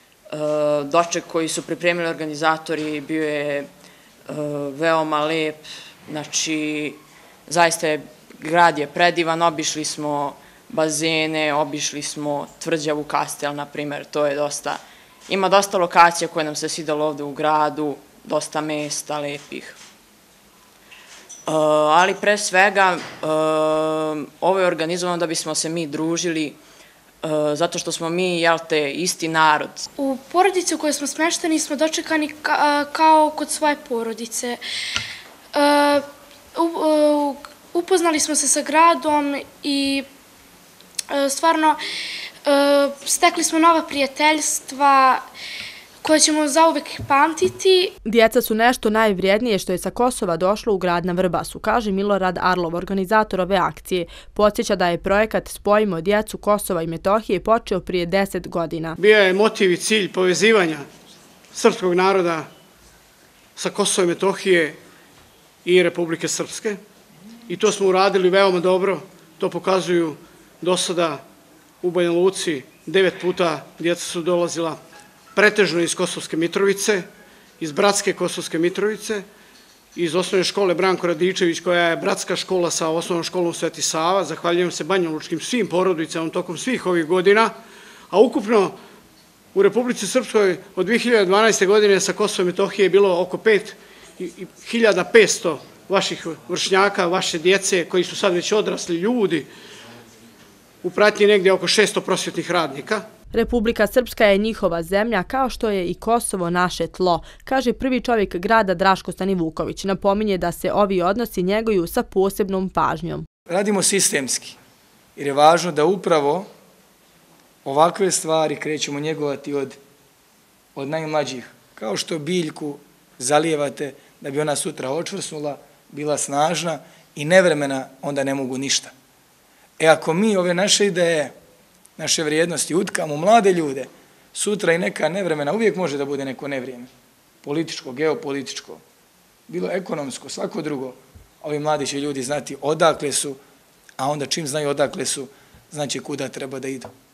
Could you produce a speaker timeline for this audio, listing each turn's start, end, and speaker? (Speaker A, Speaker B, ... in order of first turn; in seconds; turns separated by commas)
Speaker A: 0.3-3.7, Speaker A: 4.3-19.8, Speaker A: 21.5-26.6, Speaker A: 27.2-29.9, Speaker B: 30.0-34.6, Speaker B: 35.5-36.0, Speaker B: 36.5-40.0, Speaker B: 41.1-41.8, Speaker B: 42.5-45.2, Speaker B: 46.0-47.9, Speaker C: 48.1-59.0, Speaker D: 59.0-60.9, Speaker D: 61.5-62.5, Speaker D: 63.6-64.8, Speaker D: 65.7-66.8, Speaker D: 67.5-71.2, Speaker D: 71.8-74.8, Speaker D: 75.3-77.1, Speaker D: 77.6-79.3, Speaker D: 80.0-87.5, Speaker D: 88.1-88.7, Speaker D: 89.5-99.5, Speaker D: 100.8-103.0, Speaker C: 103.3-113.2, Speaker E: 113.5-114.6, Speaker E: 115.2-116.5, Speaker E: 117.7-119.8, Speaker E: 120.8-128.9, Speaker E: 129.8-131.3, Speaker E: 132.0-136.9, Speaker E: 137.4-138.8, Speaker E: 139.5-143.4, Speaker E: 144.0-146.9